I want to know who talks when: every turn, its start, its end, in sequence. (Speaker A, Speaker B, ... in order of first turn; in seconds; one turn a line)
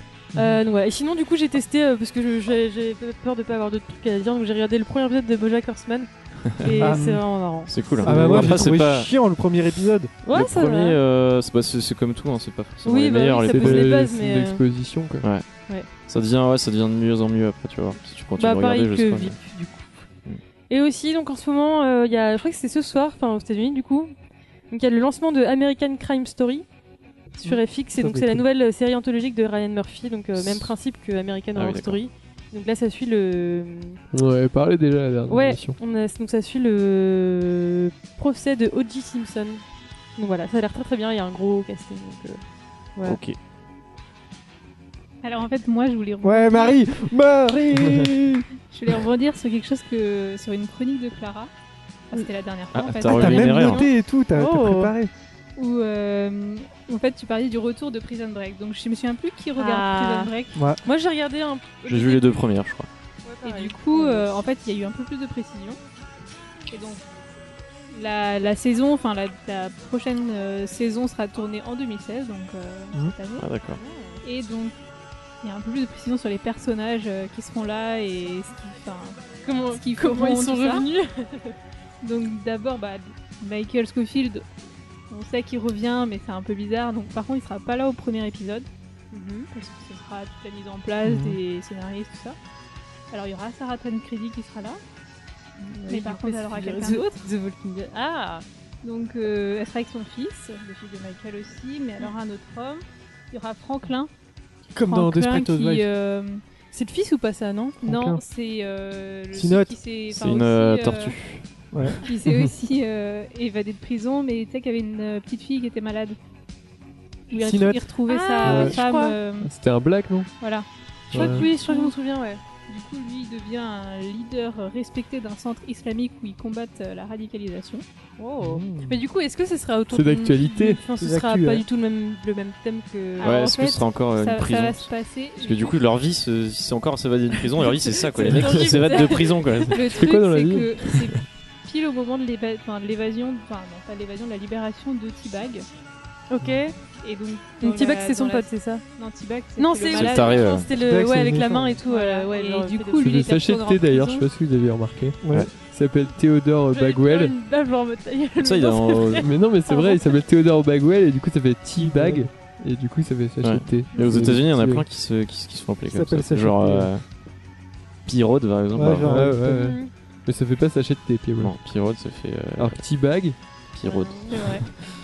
Speaker A: 0.3-0.6
Speaker B: 0.3-8.0
Speaker C: 6.5-7.0
Speaker A: 6.8-7.2
Speaker C: 7.7-9.1
Speaker A: 8.1-10.1
Speaker D: 8.1-8.7
Speaker B: 10.2-11.0
Speaker C: 10.3-14.0
Speaker B: 12.8-14.6
Speaker D: 13.5-15.3
Speaker C: 16.1-19.4
Speaker B: 18.4-20.1
Speaker B: 20.7-24.1
Speaker B: 24.7-26.6
Speaker B: 27.4-34.0
Speaker A: 27.4-28.4
Speaker C: 30.4-30.7
Speaker C: 31.6-32.0
Speaker D: 34.1-35.8
Speaker B: 35.3-39.6
Speaker B: 40.2-42.4
Speaker C: 43.0-43.4
Speaker E: 45.2-46.8
Speaker A: 46.2-48.5
Speaker E: 48.7-51.5
Speaker E: 52.1-53.7
Speaker C: 52.7-53.9
Speaker A: 53.1-55.1
Speaker B: 53.4-54.9
Speaker E: 55.6-60.6
Speaker B: 59.6-60.3
Speaker A: 60.5-60.8
Speaker B: 60.8-62.4
Speaker C: 61.9-62.9
Speaker B: 63.2-64.3
Speaker E: 63.5-65.8
Speaker E: 66.7-67.0
Speaker E: 67.9-73.5
Speaker C: 73.4-73.8
Speaker B: 73.8-74.2
Speaker E: 74.2-74.8
Speaker E: 75.4-80.9
Speaker B: 79.4-81.6
Speaker E: 82.0-84.5
Speaker E: 85.1-88.7
Speaker B: 89.1-89.5
Speaker E: 89.5-92.4
Speaker A: 91.0-91.4
Speaker E: 93.1-94.8
Speaker B: 95.6-98.5
Speaker E: 95.9-97.2
Speaker E: 98.8-104.1
Speaker A: 104.8-105.9
Speaker E: 104.8-106.4
Speaker B: 106.7-107.8
Speaker A: 107.8-108.2
Speaker E: 107.8-111.2
Speaker A: 109.3-109.7
Speaker C: 110.1-111.5
Speaker A: 111.7-112.4
Speaker E: 112.0-116.2
Speaker E: 117.3-119.5
Speaker A: 117.3-117.8
Speaker B: 118.1-119.2
Speaker A: 118.4-118.8
Speaker D: 119.4-120.3
Speaker E: 120.4-121.9
Speaker D: 121.1-121.5
Speaker B: 121.1-122.4
Speaker E: 122.7-127.8
Speaker B: 128.2-133.6
Speaker A: 128.4-129.0
Speaker D: 129.9-130.8
Speaker A: 131.0-131.6
Speaker E: 133.2-135.8
Speaker C: 133.2-140.2
Speaker B: 137.5-139.8
Speaker E: 138.2-145.7
Speaker D: 140.0-141.0
Speaker B: 146.3-146.8
Speaker E: 147.0-150.7
Speaker B: 147.6-148.8
Speaker B: 149.6-153.1
Speaker C: 149.9-150.7
Speaker A: 150.7-151.8
Speaker E: 151.9-154.3
Speaker D: 153.0-157.3
Speaker A: 155.2-155.5
Speaker B: 156.7-160.1
Speaker C: 158.4-159.3
Speaker D: 159.2-164.8
Speaker A: 161.8-162.3
Speaker C: 163.4-167.0
Speaker A: 165.9-166.9
Speaker C: 168.1-169.3
Speaker A: 168.8-169.6
Speaker D: 169.0-171.5
Speaker B: 169.4-169.9
Speaker C: 171.4-172.8
Speaker D: 172.6-173.4
Speaker C: 173.7-174.7
Speaker B: 173.8-174.6
Speaker E: 174.3-174.6